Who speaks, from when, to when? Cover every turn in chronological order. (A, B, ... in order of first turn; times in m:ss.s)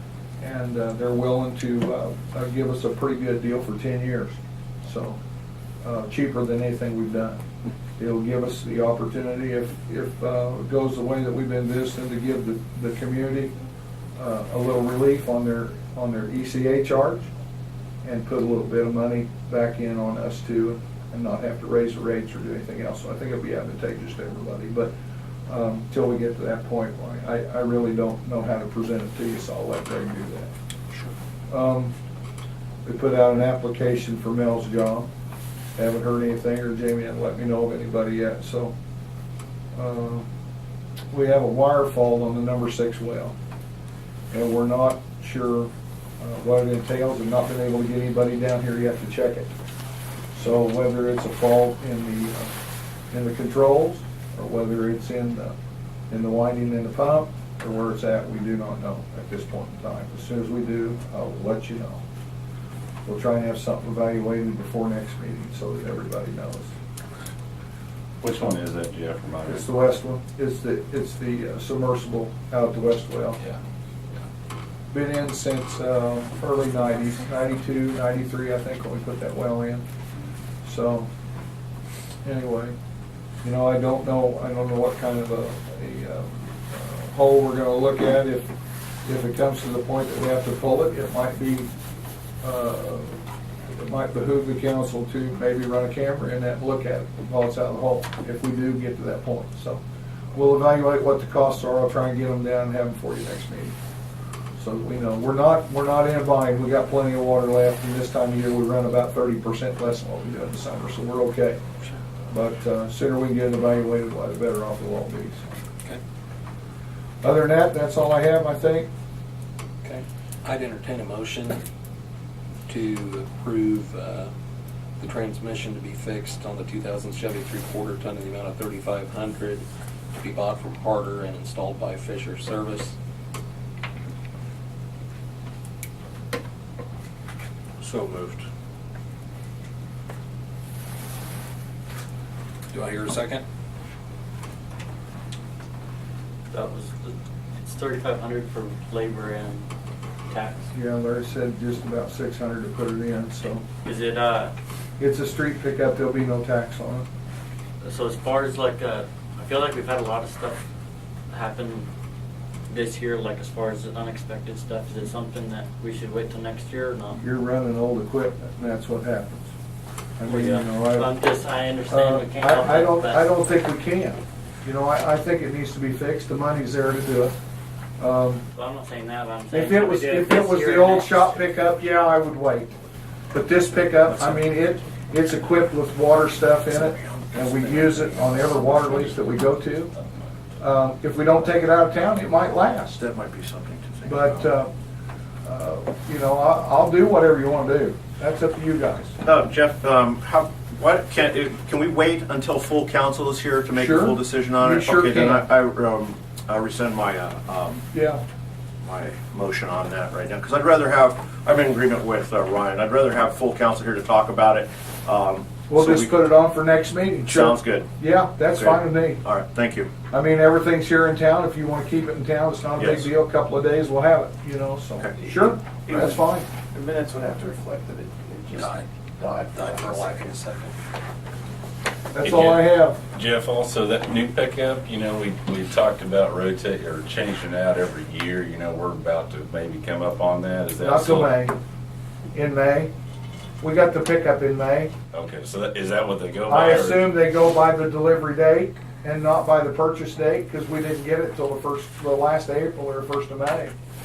0:00.4-0:05.2 A
0:05.8-0:07.4 A
0:08.0-0:13.5 A
0:14.2-0:17.3 A
0:18.0-0:24.9 A
0:25.5-0:30.5 A
0:31.5-0:31.9 A
0:32.8-0:35.1 A
0:35.8-0:38.8 A
0:39.7-0:40.2 A
0:41.1-0:43.3 A
0:44.3-0:49.5 A
0:50.3-0:52.5 A
0:53.1-0:55.5 A
0:56.1-1:02.0 A
1:03.0-1:06.7 A
1:08.2-1:09.6 B
1:09.4-1:13.4 A
1:14.9-1:19.8 A
1:20.6-1:21.1 A
1:22.2-1:22.7 A
1:23.4-1:28.5 A
1:29.0-1:31.7 A
1:32.4-1:39.8 A
1:40.3-1:43.8 A
1:44.6-1:51.6 A
1:52.3-1:55.5 A
1:57.2-1:58.9 A
1:59.8-2:01.6 C
2:02.7-2:04.3 C
2:05.0-2:09.6 C
2:10.2-2:13.0 C
2:17.8-2:18.4 C
2:22.7-2:23.4 C
2:26.5-2:29.6 D
2:30.3-2:30.7 D
2:30.7-2:33.6 A
2:33.8-2:34.5 D
2:35.0-2:37.1 A
2:37.8-2:40.6 D
2:41.3-2:41.9 D
2:42.7-2:47.2 D
2:47.2-2:49.5 A
2:50.2-2:51.1 A
2:50.3-2:53.3 D
2:51.9-2:57.3 A
2:58.0-2:58.4 A
2:58.5-3:01.3 D
2:59.5-3:02.7 A
3:03.3-3:09.9 A
3:08.2-3:09.2 B
3:09.9-3:10.4 B
3:10.6-3:13.0 A
3:12.9-3:14.5 E
3:14.0-3:14.7 A
3:15.4-3:19.2 A
3:19.2-3:27.8 E
3:23.8-3:25.4 A
3:27.9-3:28.2 A
3:28.8-3:36.2 E
3:35.7-3:39.2 A
3:37.2-3:37.9 E
3:38.5-3:39.9 E
3:40.1-3:46.5 A
3:42.8-3:43.1 E
3:45.9-3:46.2 F
3:46.7-3:50.3 F
3:48.5-3:48.8 C
3:49.5-3:50.7 C
3:52.1-3:53.0 A
3:52.2-4:01.4 B
4:00.8-4:01.6 A
4:02.3-4:02.9 A
4:03.6-4:04.9 A
4:05.1-4:07.0 B
4:06.5-4:13.7 A